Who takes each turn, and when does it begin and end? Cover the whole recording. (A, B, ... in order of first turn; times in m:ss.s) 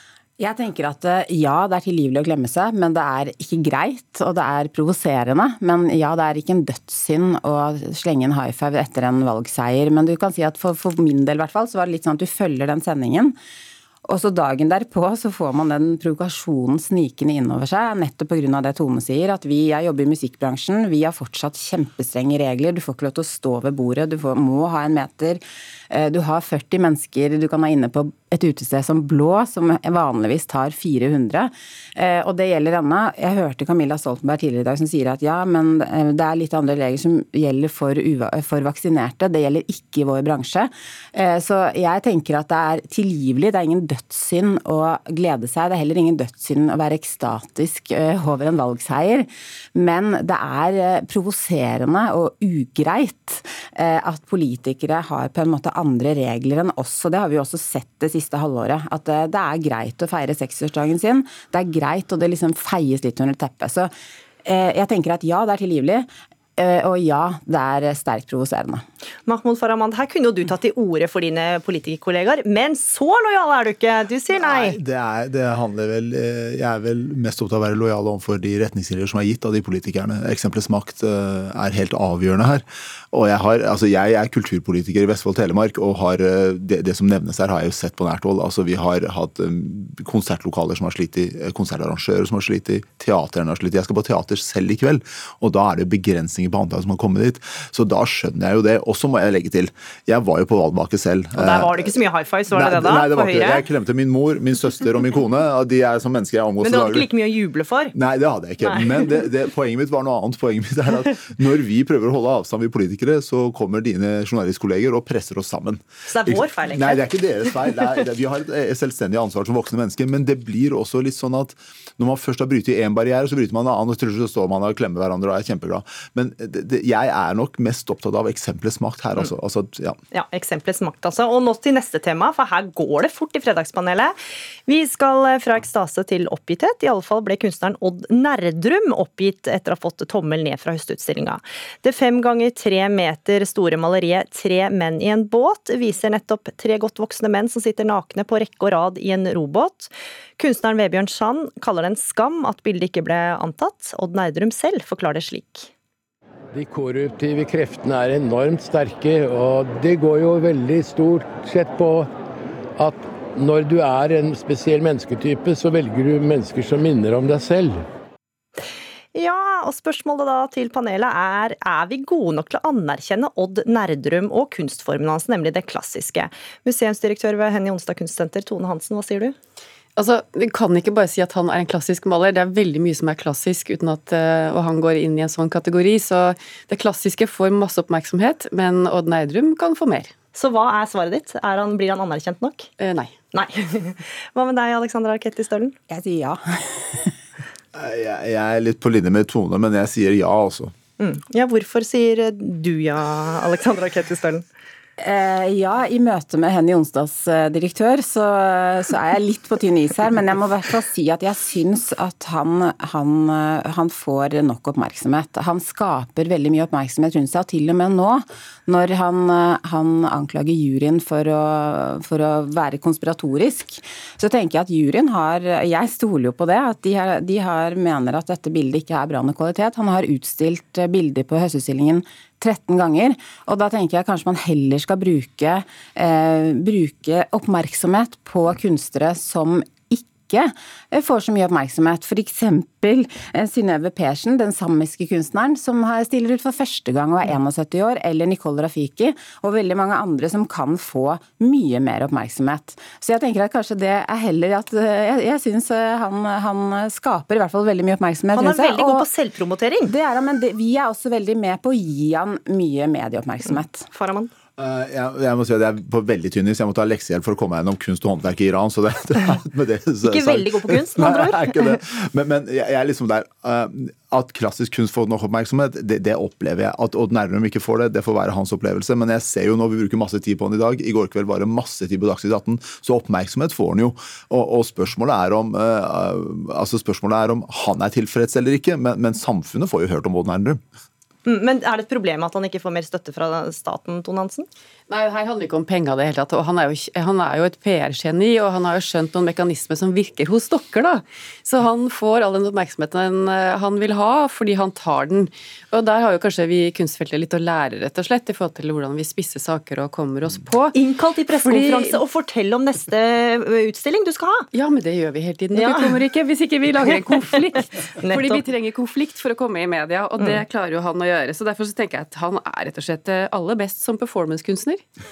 0:00.4-0:13.3 A
0:14.1-1:03.9 A
1:04.4-1:08.8 A
1:09.2-1:14.8 B
1:14.4-1:41.9 C
1:41.4-1:43.6 B
1:42.5-1:47.1 C
1:46.6-1:47.9 B
1:47.9-2:10.0 C
1:48.6-1:49.1 B
1:56.1-1:57.0 B
2:10.1-2:14.1 B
2:14.7-2:35.7 B
2:36.5-2:42.1 D
2:42.8-2:47.8 D
2:49.1-2:59.4 B
3:00.0-3:10.1 E
3:10.3-3:12.7 B
3:12.8-3:13.1 E
3:13.3-3:15.8 B
3:15.9-3:17.1 A
3:17.7-3:20.7 C
3:21.0-3:24.4 B
3:25.0-4:19.1 A
4:18.3-4:19.9 B
4:19.9-4:23.9 A
4:23.8-4:24.3 B
4:24.6-4:50.6 C
4:30.1-4:31.6 B
4:51.2-4:54.5 B
4:54.9-5:10.8 E
5:10.7-5:14.5 B
5:11.4-5:12.0 E
5:14.5-5:24.8 E
5:15.6-5:15.9 B
5:18.0-5:18.4 B